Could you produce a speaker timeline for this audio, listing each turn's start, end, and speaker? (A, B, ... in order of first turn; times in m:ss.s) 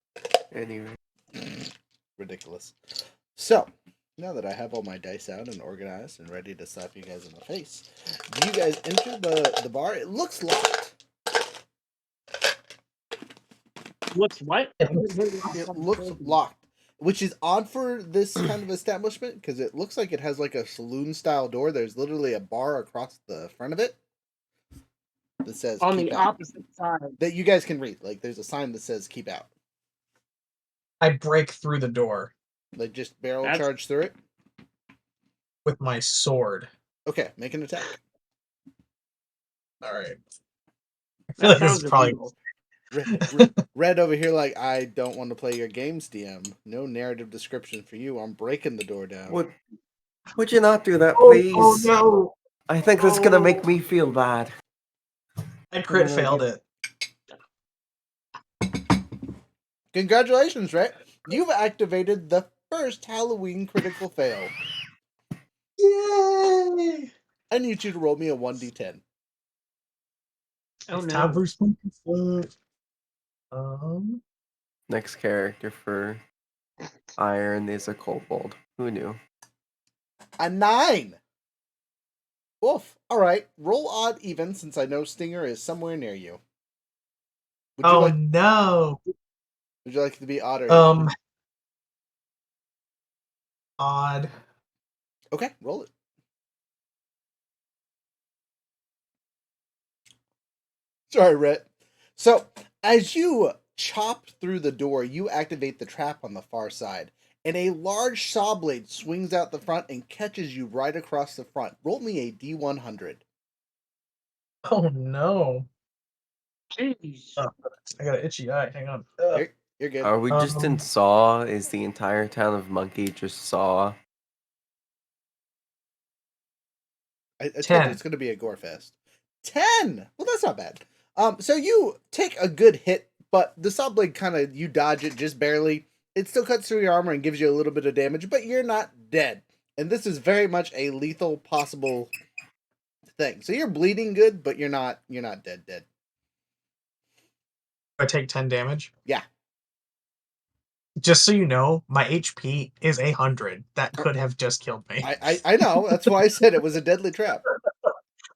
0:00.5-0:01.0 A
0:02.2-0:02.8 B
0:03.4-0:11.0 B
0:14.1-0:16.4 C
0:14.8-0:15.5 D
0:15.6-0:24.0 B
0:25.4-0:26.3 B
0:25.8-0:27.2 C
0:27.2-0:29.5 B
0:31.0-0:32.3 D
0:32.8-0:34.2 B
0:35.6-0:36.7 D
0:37.1-0:37.9 B
0:39.8-0:40.2 D
0:41.4-0:42.3 C
0:41.4-0:42.3 D
0:42.9-0:49.4 B
0:43.1-0:43.5 D
0:49.3-0:49.6 A
0:50.3-0:51.9 A
0:51.2-0:52.3 D
0:52.7-0:54.5 A
0:53.0-0:53.7 D
0:55.7-0:56.6 D
0:55.9-0:56.5 A
0:59.9-1:04.5 B
1:05.8-1:07.1 D
1:07.5-1:09.0 B
1:10.9-1:11.4 C
1:10.9-1:12.5 D
1:13.5-1:14.2 D
1:14.9-1:16.2 A
1:17.2-1:19.2 A
1:20.4-1:21.2 B
1:22.6-1:26.4 B
1:27.8-1:28.2 B
1:27.8-1:29.0 D
1:29.8-1:31.1 B
1:30.7-1:31.1 D
1:33.8-1:34.3 D
1:35.3-1:35.9 B
1:41.1-1:53.2 B
1:54.6-1:55.7 D
1:56.8-1:57.4 C
1:57.4-1:59.4 D
1:59.3-2:00.1 B
2:00.0-2:04.0 A
2:00.3-2:00.8 D
2:07.4-2:22.1 B
2:07.6-2:08.0 D
2:23.2-2:25.9 B
2:28.0-2:28.9 D
2:31.0-2:36.1 D
2:35.0-2:37.4 B